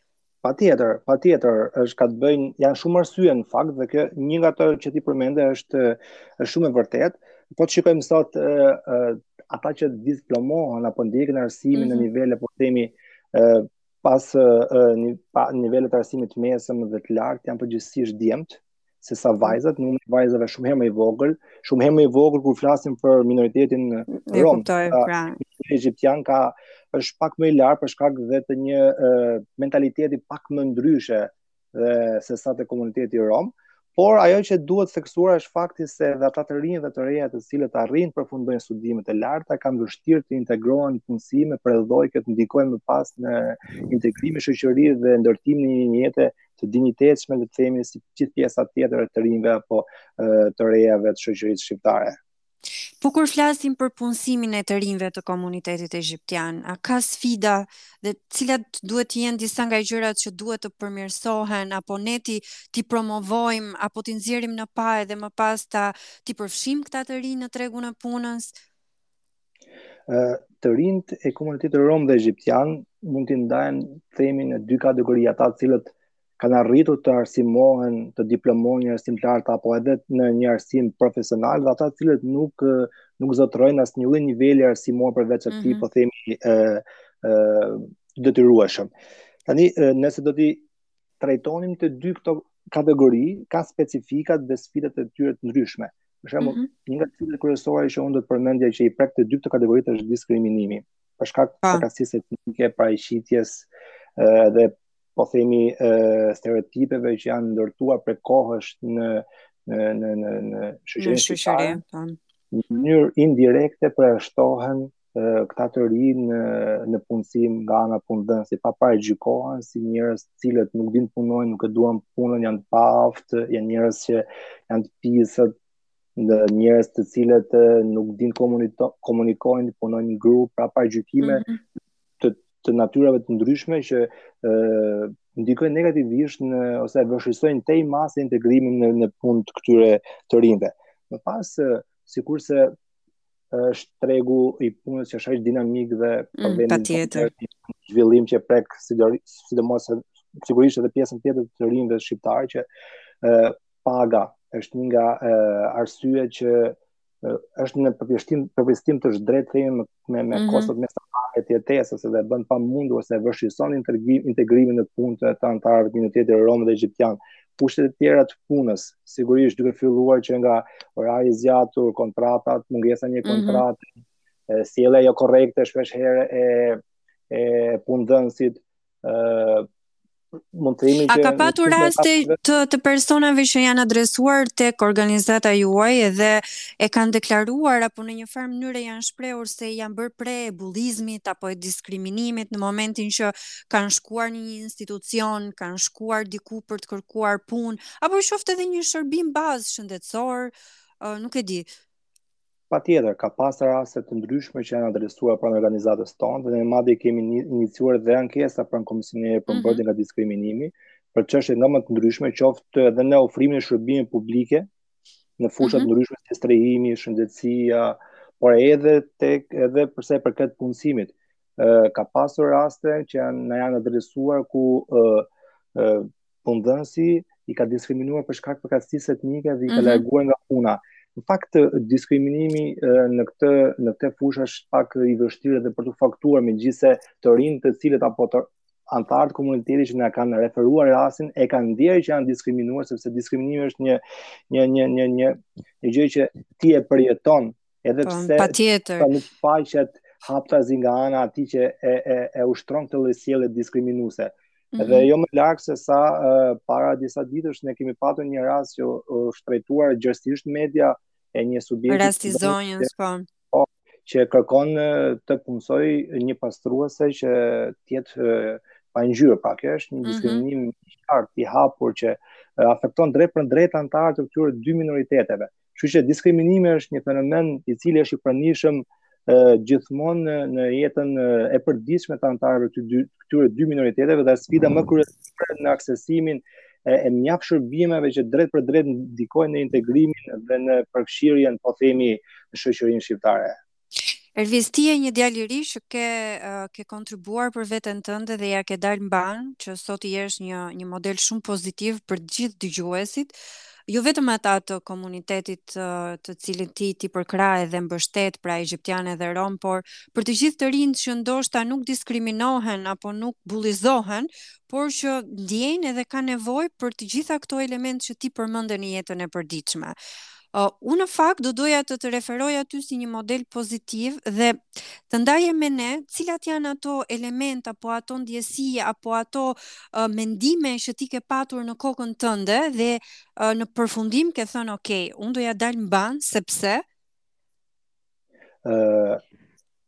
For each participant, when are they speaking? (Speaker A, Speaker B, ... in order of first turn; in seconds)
Speaker A: 0.4-52.2, 70.1-88.9, 89.5-90.6, 91.2-111.8, 112.5-125.5, 126.2-131.4, 132.2-142.7, 143.5-152.7, 153.2-173.8, 174.5-176.8, 177.3-179.7, 180.5-182.3, 202.7-214.7, 215.4-262.9, 263.5-293.5, 338.6-339.2
Speaker B: 11.7-12.1, 24.1-25.4, 53.0-68.5, 85.5-85.8, 96.4-96.7, 111.0-112.2, 131.2-131.6, 146.4-147.3, 160.3-160.7, 173.2-173.6, 181.1-201.7, 209.5-209.8, 215.6-215.9, 229.7-230.0, 248.0-249.1, 254.7-255.1, 261.9-263.2, 270.0-270.4, 294.4-303.3, 303.9-319.9, 320.5-336.8